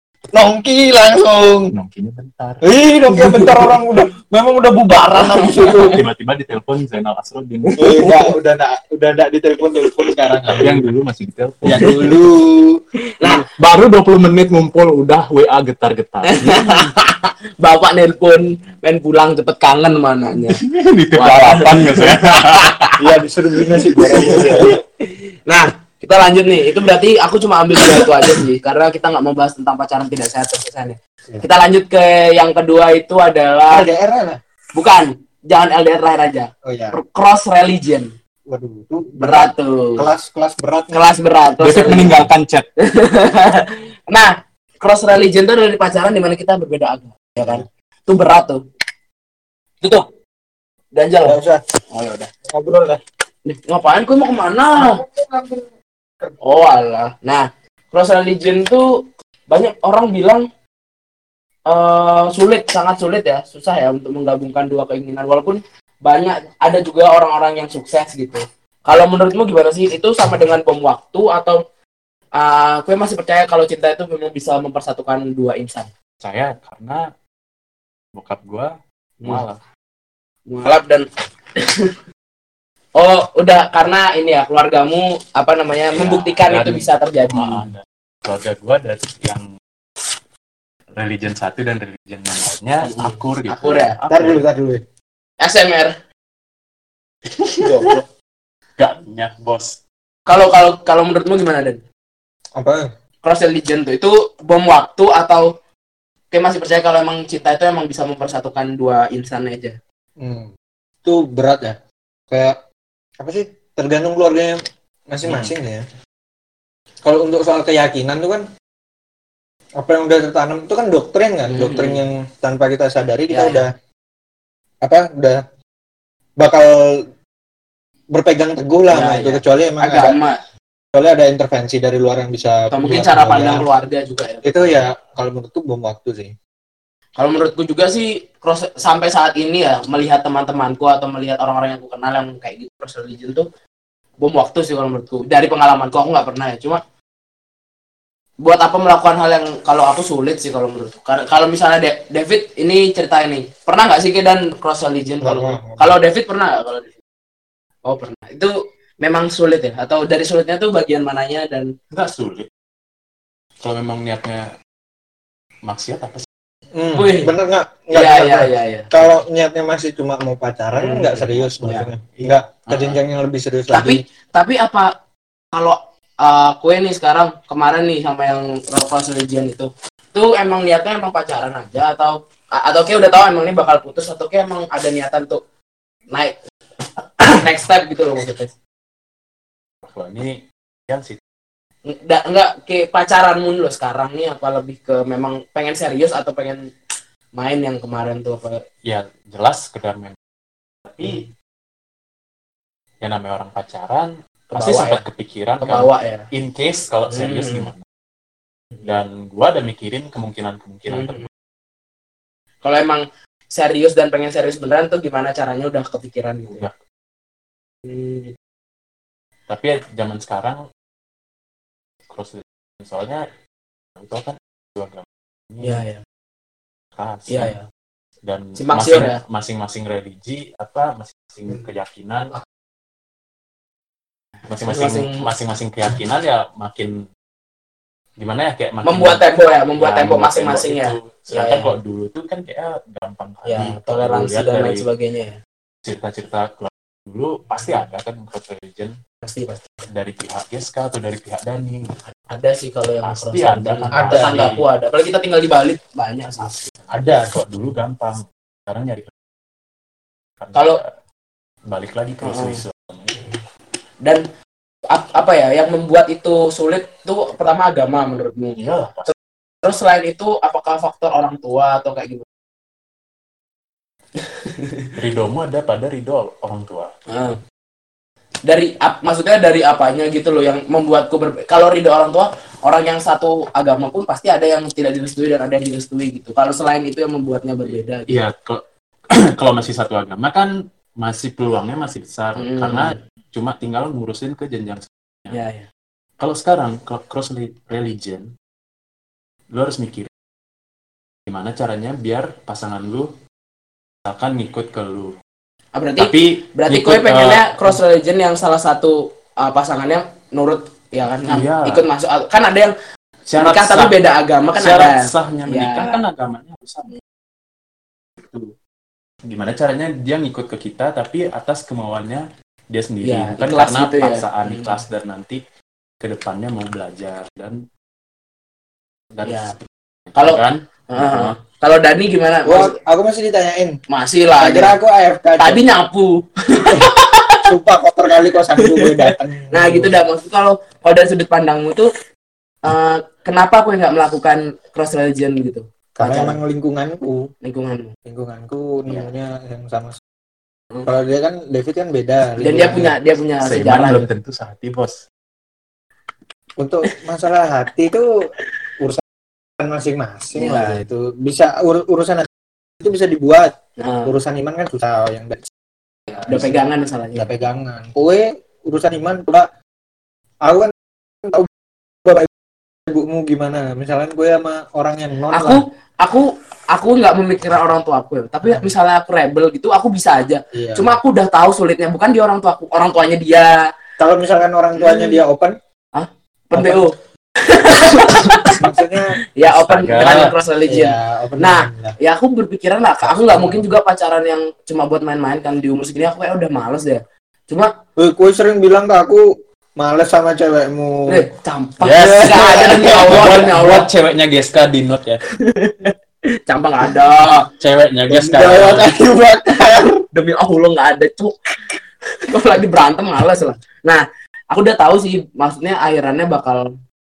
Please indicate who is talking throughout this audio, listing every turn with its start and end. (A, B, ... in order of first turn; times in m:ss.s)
0:00.3-0:01.7 A
0:01.7-0:02.6 B
0:02.6-0:06.0 A
0:03.1-0:03.7 C
0:05.1-0:06.0 C
0:05.9-0:07.9 B
0:07.7-0:08.3 C
0:07.8-0:10.9 A
0:10.6-0:12.1 B
0:11.6-0:13.4 A
0:13.2-0:13.4 C
0:13.6-0:16.9 B
0:16.3-0:20.6 C
0:20.5-0:22.7 B
0:21.2-0:23.0 C
0:23.0-0:24.8 A
0:24.0-0:33.8 C
0:33.7-0:34.4 A
0:34.8-0:38.1 C
0:36.6-0:37.0 A
0:38.5-0:41.0 A
0:39.2-0:40.0 C
0:40.9-0:42.3 C
0:41.6-0:42.7 B
0:42.8-0:48.6 C
0:50.9-0:51.4 C
0:51.2-0:51.6 A
0:51.9-0:52.3 C
0:52.5-0:53.0 A
0:53.4-0:55.0 C
0:54.7-0:55.7 A
0:56.2-0:56.6 A
0:56.4-0:58.9 C
0:59.5-1:00.4 C
1:01.7-1:11.6 C
1:12.4-1:15.9 C
1:16.2-1:17.0 B
1:18.2-1:18.7 B
1:19.2-1:19.6 B
1:20.5-1:21.0 C
1:21.6-1:21.9 C
1:23.0-1:27.6 C
1:25.9-1:29.5 B
1:30.9-1:34.4 B
1:32.8-1:34.0 C
1:34.1-1:34.8 A
1:35.4-1:35.9 C
1:37.4-1:38.0 B
1:37.6-1:38.0 C
1:38.8-1:39.8 B
1:40.3-1:41.8 C
1:42.6-1:42.9 A
1:43.2-1:45.5 C
1:46.3-1:49.8 C
1:50.2-1:50.5 A
1:51.0-1:51.8 A
1:52.3-1:52.6 A
1:53.2-1:54.6 A
1:55.1-1:55.8 A
1:57.0-1:58.4 A
1:59.8-2:03.7 A
2:01.5-2:02.0 C
2:03.3-2:03.6 C
2:04.8-2:05.4 A
2:06.4-2:07.0 A
2:08.1-2:10.1 A
2:08.9-2:10.4 C
2:10.9-2:13.7 A
2:12.7-2:14.8 C
2:14.4-2:16.3 A
2:17.2-2:23.5 C
2:24.2-2:26.8 C
2:28.4-2:36.9 C
2:35.2-2:35.9 A
2:37.8-2:41.7 C
2:41.9-2:42.5 B
2:43.6-2:44.5 B
2:45.6-2:46.2 B
2:46.8-2:54.0 A
2:46.9-2:47.3 C
2:47.9-2:49.1 C
2:50.8-2:51.9 C
2:53.7-2:54.9 C
2:55.5-3:05.4 C
3:07.2-3:08.5 C
3:09.8-3:11.2 B
3:11.9-3:16.6 C
3:17.3-3:18.6 C
3:18.8-3:20.1 B
3:20.9-3:21.2 B
3:21.0-3:21.3 C
3:23.0-3:27.8 B
3:24.5-3:25.0 C
3:25.6-3:26.2 C
3:27.1-3:27.7 C
3:28.8-3:31.3 B
3:30.9-3:31.3 C
3:32.6-3:36.7 C
3:37.8-3:38.3 C
3:39.5-3:40.6 B
3:42.1-3:43.2 B
3:44.0-3:45.8 B
3:45.6-3:46.0 C
3:47.0-3:47.6 B
3:47.3-3:47.6 C
3:48.2-3:52.3 B
3:48.6-3:49.2 C
3:54.5-3:57.0 B
3:54.7-3:55.3 C
3:58.2-3:59.2 B
3:58.8-4:01.7 C
3:59.8-4:04.8 B
4:03.4-4:05.4 C
4:05.8-4:09.0 B
4:09.2-4:09.6 C
4:09.9-4:12.0 B
4:12.3-4:16.6 C
4:13.0-4:14.6 B
4:13.9-4:14.4 A
4:16.4-4:19.1 B
4:20.4-4:20.9 B
4:20.5-4:20.8 C
4:21.7-4:23.3 B
4:22.2-4:22.6 C
4:24.9-4:29.1 C
4:28.6-4:29.1 B
4:29.6-4:32.2 C
4:34.3-4:34.9 C
4:35.0-4:36.9 B
4:37.1-4:37.4 C
4:38.4-4:48.2 C
4:48.1-4:48.6 B
4:49.1-4:50.5 B
4:51.0-4:55.4 B
4:52.4-4:53.0 C
4:55.3-4:55.7 C
4:56.2-4:58.3 B
4:59.5-5:00.1 B
5:01.3-5:03.1 B
5:04.0-5:05.1 B
5:05.7-5:12.7 C
5:06.0-5:07.8 B
5:11.3-5:11.8 B
5:13.3-5:13.9 B
5:13.4-5:16.0 C
5:14.5-5:17.0 B
5:18.2-5:18.5 B
5:19.2-5:25.4 B
5:23.0-5:24.8 C
5:26.0-5:27.6 B
5:29.1-5:29.6 B
5:29.2-5:29.5 C
5:30.1-5:31.4 B
5:30.2-5:32.7 C
5:32.4-5:33.8 A
5:33.9-5:34.8 C
5:34.4-5:35.6 A
5:35.4-5:37.5 C
5:37.5-5:39.9 A
5:38.6-5:41.9 C
5:42.6-5:46.4 C
5:46.0-5:47.3 A
5:47.4-5:47.9 C
5:48.1-5:50.0 A
5:50.8-5:52.9 A
5:52.4-5:54.0 C
5:53.4-5:55.0 B
5:56.6-5:58.3 A
5:59.6-6:02.3 A
6:00.3-6:00.8 C
6:02.8-6:05.4 A
6:03.8-6:04.1 C
6:06.1-6:07.2 C
6:06.2-6:06.6 A
6:07.1-6:09.4 A
6:10.4-6:10.7 A
6:11.2-6:11.5 A
6:12.0-6:12.3 A
6:12.9-6:15.6 A
6:15.3-6:23.5 C
6:18.4-6:18.7 A
6:20.5-6:21.0 A
6:24.0-6:25.5 A
6:24.8-6:25.2 C
6:25.9-6:26.9 C
6:26.5-6:26.8 A
6:27.5-6:28.6 C
6:28.6-6:29.1 A
6:29.4-6:37.7 C
6:29.4-6:30.3 B
6:30.7-6:32.0 A
6:33.0-6:33.6 A
6:38.0-6:39.2 A
6:39.8-6:41.3 A
6:41.1-6:43.9 C
6:41.8-6:45.2 B
6:42.2-6:43.2 A
6:45.4-6:45.9 C
6:46.5-6:47.5 C
6:47.6-6:49.0 B
6:48.3-6:51.3 C
6:52.3-6:56.6 C